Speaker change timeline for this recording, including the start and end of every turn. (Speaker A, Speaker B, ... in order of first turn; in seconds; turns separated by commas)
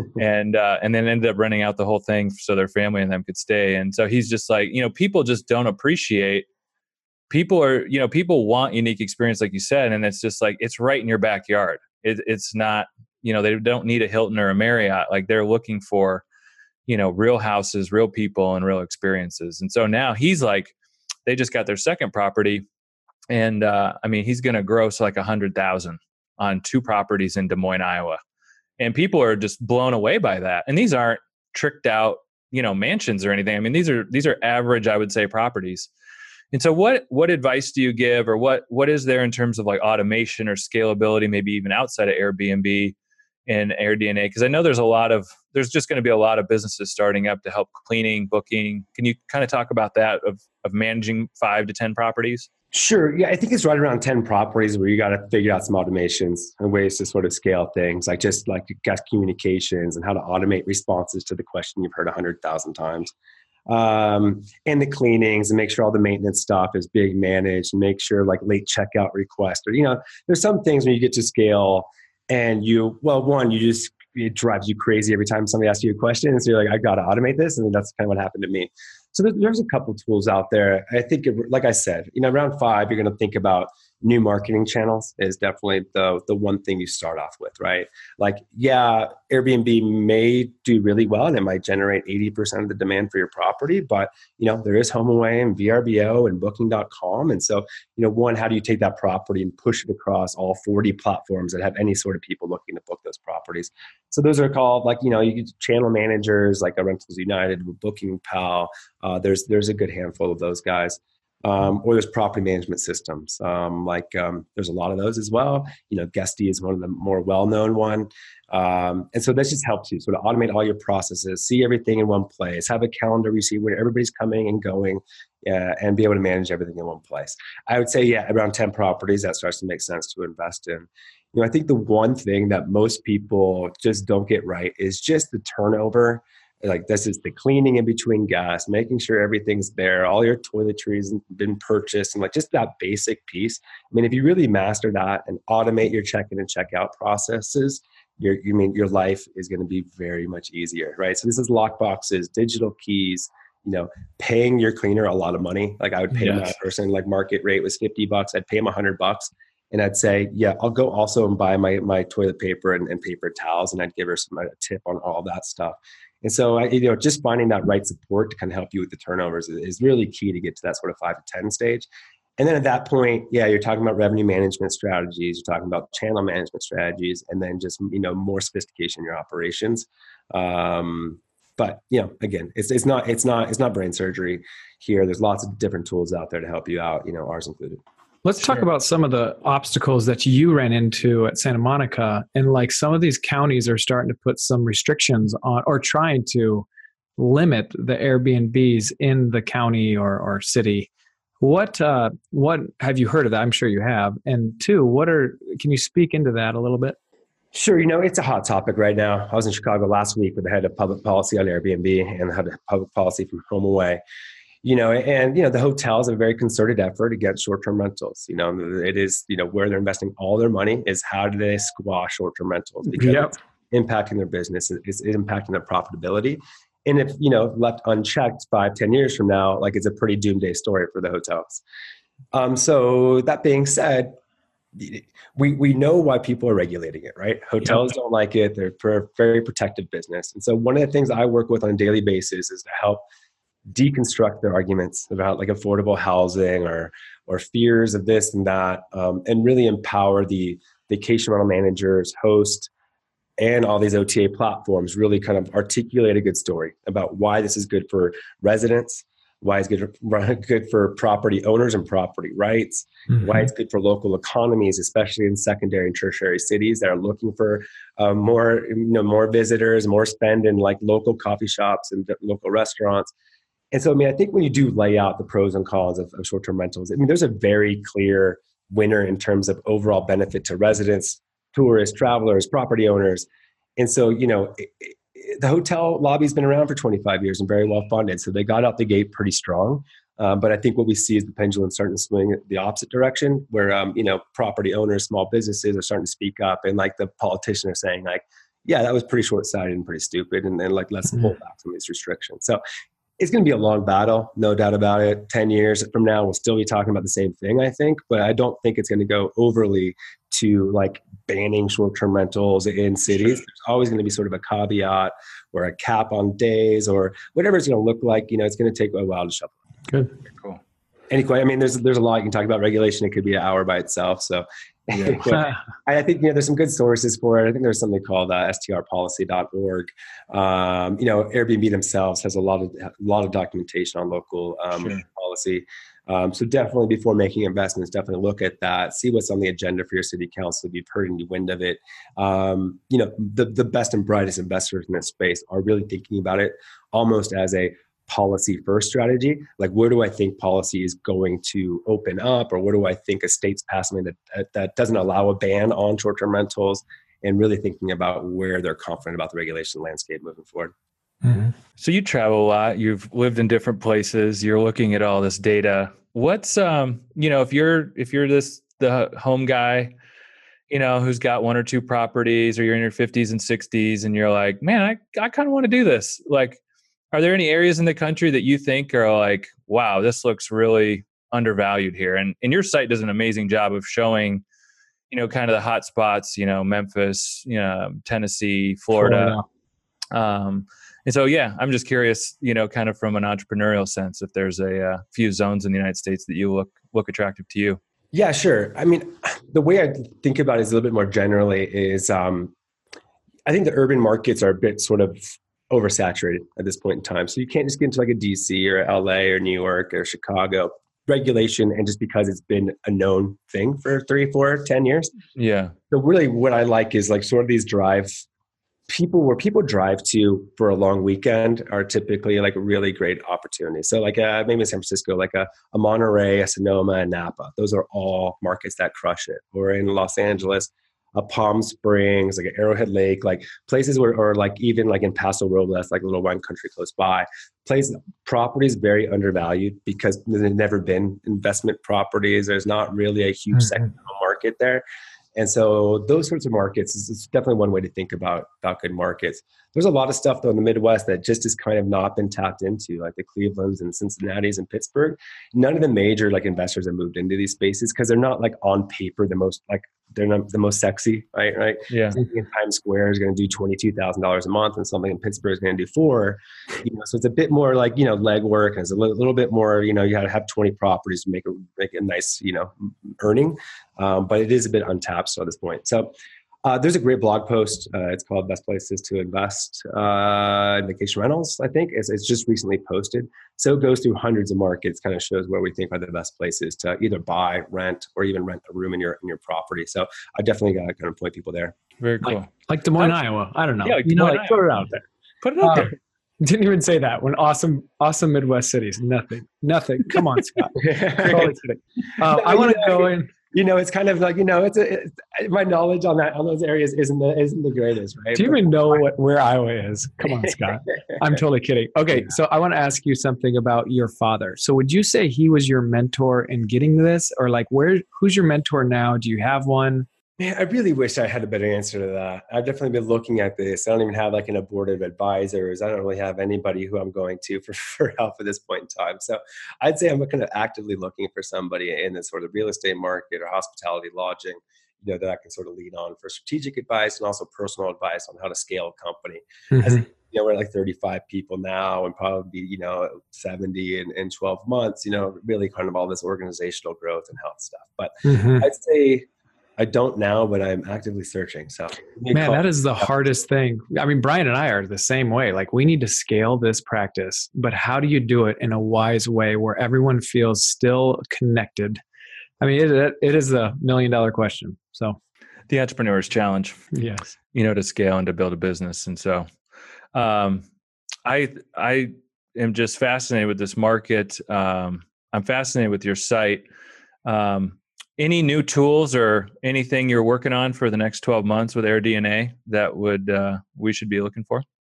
Speaker A: 0.1-6.5, Speaker A: 7.3-16.2, Speaker A: 16.9-20.7, Speaker A: 21.2-22.6, Speaker A: 23.3-28.2, Speaker A: 28.8-35.9, Speaker A: 36.5-42.9, Speaker A: 43.5-52.5, Speaker B: 52.7-63.1, Speaker B: 63.7-171.9, Speaker C: 156.2-156.5, Speaker B: 172.4-187.8, Speaker C: 188.2-196.7, Speaker C: 197.2-200.9, Speaker C: 201.4-207.0, Speaker B: 207.5-214.0, Speaker B: 214.6-231.6, Speaker C: 222.9-223.3, Speaker B: 232.3-234.2, Speaker B: 234.7-243.0, Speaker B: 243.7-252.7, Speaker B: 253.4-273.1, Speaker B: 273.7-302.6, Speaker B: 303.2-319.5, Speaker B: 321.1-360.7, Speaker A: 324.9-325.2, Speaker C: 361.2-361.5, Speaker A: 361.8-369.9, Speaker A: 370.7-376.6, Speaker A: 377.1-384.4, Speaker A: 385.1-389.4, Speaker C: 388.9-389.4, Speaker A: 390.1-397.8, Speaker B: 398.1-402.5, Speaker B: 403.4-415.1, Speaker A: 415.4-415.7, Speaker B: 415.9-418.2, Speaker B: 418.9-444.8, Speaker B: 445.3-476.1, Speaker A: 461.9-462.2, Speaker B: 476.6-491.8, Speaker A: 492.0-493.1, Speaker C: 492.2-495.0, Speaker A: 493.8-494.7, Speaker A: 495.4-495.9, Speaker C: 495.6-503.3, Speaker B: 500.7-501.6, Speaker B: 502.2-509.0, Speaker C: 508.3-520.1, Speaker B: 520.4-549.2, Speaker C: 539.7-540.0, Speaker C: 548.2-548.7, Speaker B: 549.8-553.1, Speaker C: 552.3-562.0, Speaker C: 562.6-565.2, Speaker A: 565.7-566.8, Speaker C: 566.9-567.3, Speaker A: 567.5-569.5, Speaker A: 570.1-570.6, Speaker A: 571.2-576.6, Speaker A: 577.2-584.6